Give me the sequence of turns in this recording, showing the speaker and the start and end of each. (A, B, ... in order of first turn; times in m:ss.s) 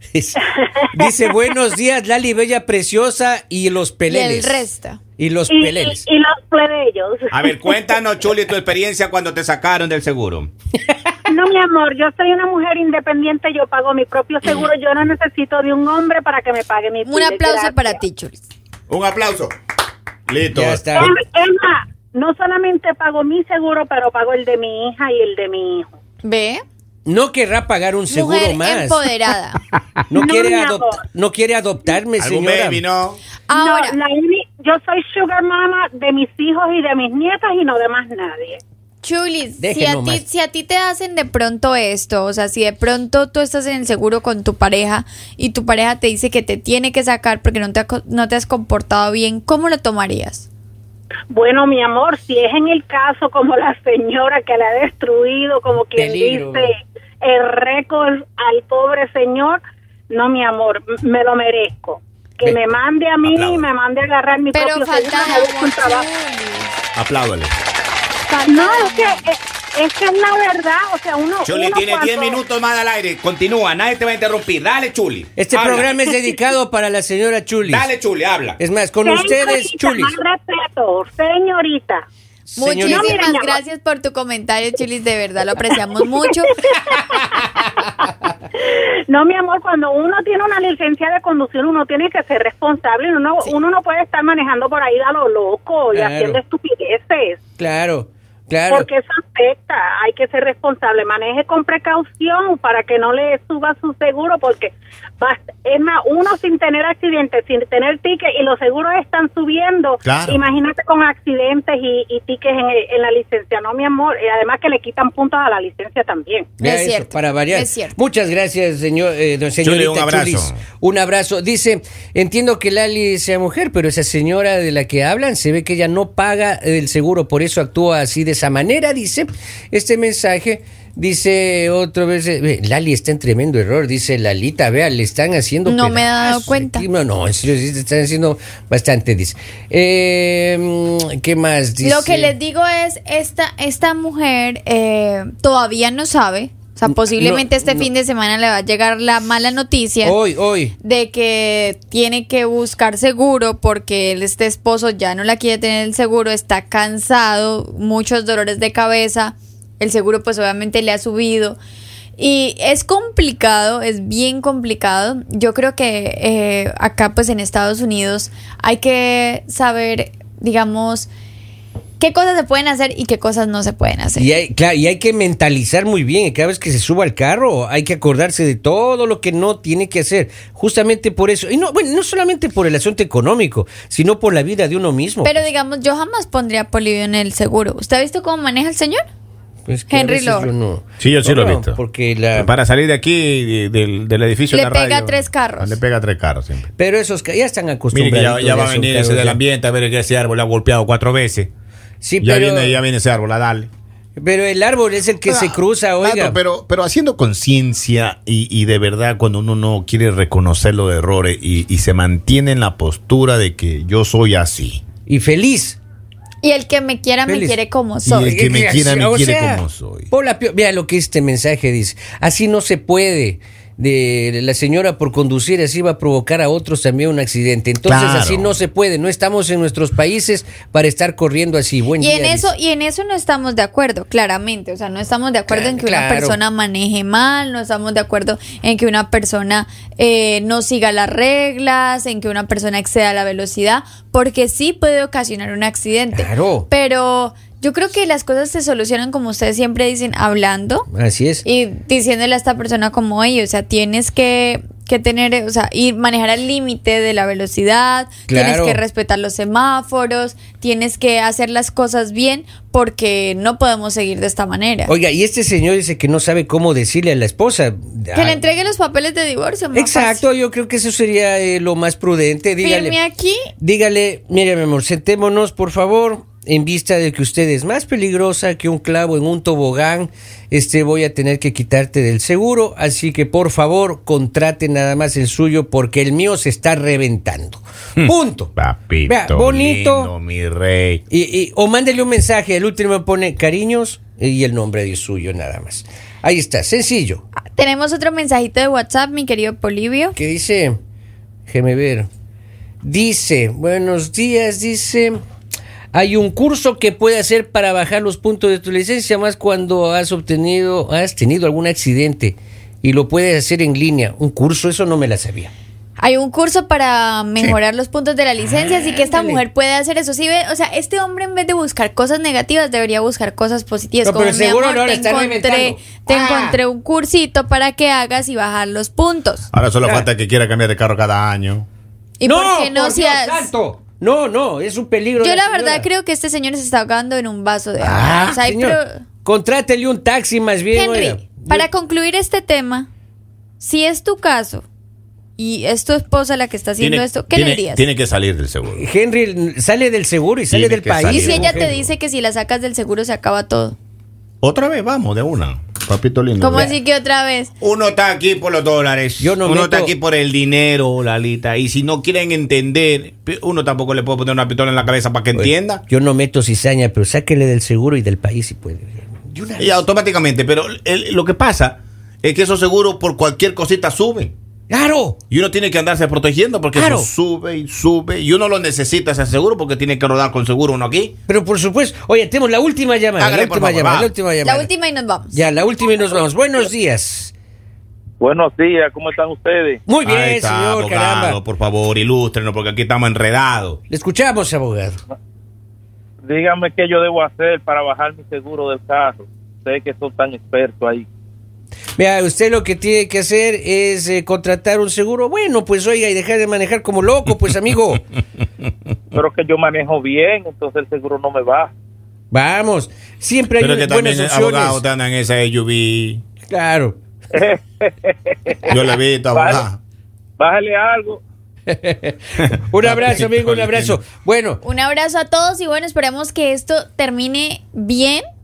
0:00.1-0:04.6 A
0:00.7-0:01.6 B
0:04.1-0:05.0 C
0:05.2-0:06.0 A
0:05.5-0:07.8 B
0:07.3-0:10.5 D
0:11.2-0:18.0 B
0:17.0-0:18.4 C
0:18.9-0:19.5 D
0:20.3-0:21.1 D
0:20.5-0:21.1 A
0:21.0-0:25.9 B
0:26.2-0:26.6 C
0:27.0-0:29.0 A
0:28.1-0:29.6 C
0:30.1-0:32.8 A
0:30.1-0:31.0 B
0:32.2-0:33.2 D
0:33.5-0:34.0 C
0:33.5-0:38.6 B
0:39.0-0:50.5 C
0:39.6-0:40.2 A
0:51.3-1:06.0 B
0:56.0-0:56.7 A
1:03.2-1:03.7 D
1:04.5-1:06.7 C
1:07.0-1:07.5 D
1:08.3-1:12.4 B
1:08.4-1:09.2 C
1:11.4-1:15.9 D
1:15.4-1:17.9 A
1:17.6-1:18.6 D
1:18.6-1:20.1 A
1:19.0-1:22.0 B
1:22.5-1:23.2 A
1:22.6-1:26.6 C
1:22.8-1:23.6 B
1:26.6-1:37.4 B
1:27.4-1:27.8 A
1:35.9-1:36.4 A
1:37.6-1:38.9 A
1:38.7-1:56.5 B
1:50.0-1:50.4 D
1:56.6-2:22.3 A
1:56.6-1:57.9 C
1:59.6-2:00.6 D
2:15.6-2:16.8 C
2:21.8-2:30.2 C
2:27.0-2:27.8 A
2:30.0-2:30.7 A
2:30.8-2:41.6 C
2:42.2-2:51.1 C
2:52.0-2:54.3 C
2:54.2-3:05.5 A
3:05.2-3:09.0 C
3:09.6-3:12.5 A
3:09.9-3:10.5 C
3:11.0-3:11.8 D
3:12.3-3:16.7 D
3:14.5-3:15.8 C
3:16.8-3:19.4 A
3:17.9-3:21.5 D
3:22.0-3:22.8 A
3:22.2-3:23.7 D
3:24.2-3:26.4 A
3:25.2-3:34.8 D
3:35.1-3:35.8 A
3:36.4-3:38.4 C
3:37.3-3:37.6 A
3:38.0-3:40.1 D
3:38.2-3:52.5 A
3:47.8-3:48.6 D
3:52.0-4:10.9 C
3:55.5-3:56.4 A
4:06.1-4:06.7 A
4:10.9-4:11.4 A
4:11.4-4:24.9 C
4:18.3-4:18.8 A
4:24.9-4:28.4 A
4:28.1-4:30.2 C
4:29.7-4:33.0 A
4:32.6-4:33.5 C
4:33.6-4:50.1 A
4:48.0-4:51.0 D
4:51.1-4:57.2 A
4:57.4-5:00.2 C
5:00.2-5:00.8 A
5:01.5-5:02.1 A
5:02.8-5:05.2 A
5:05.9-5:15.5 A
5:16.0-5:29.5 C
5:18.8-5:19.4 A
5:24.0-5:26.6 A
5:29.5-5:31.6 D
5:32.2-5:33.5 C
5:32.2-5:35.9 A
5:35.2-5:39.0 C
5:37.8-5:38.2 D
5:37.8-5:41.7 A
5:40.7-5:42.9 C
5:43.6-5:44.6 C
5:45.4-5:47.8 C
5:46.8-5:48.8 D
5:48.7-5:51.7 A
5:50.5-5:51.9 D
5:51.0-5:53.8 C
5:54.4-5:56.7 D
5:56.4-5:57.5 C
5:57.6-6:05.8 D
5:59.2-5:59.9 A
6:05.3-6:09.8 A
6:09.6-6:14.3 D
6:14.7-6:15.2 A
6:15.3-6:21.2 D
6:16.7-6:17.1 A
6:21.3-6:24.7 A
6:23.2-6:24.1 D
6:24.4-6:25.4 C
6:25.3-6:27.3 A
6:28.2-6:29.8 E
6:29.9-6:31.4 A
6:30.0-6:33.8 D
6:33.9-6:35.0 A
6:36.2-6:41.1 E
6:42.0-6:48.0 A
6:49.1-6:51.7 E
6:52.3-6:54.8 A
6:53.6-6:56.2 D
6:56.5-6:57.0 A
6:57.3-6:58.7 E
6:58.7-6:59.8 D
6:59.3-6:59.6 E
7:00.4-7:01.2 E
7:01.7-7:04.6 A
7:02.4-7:04.0 D
7:04.6-7:08.2 C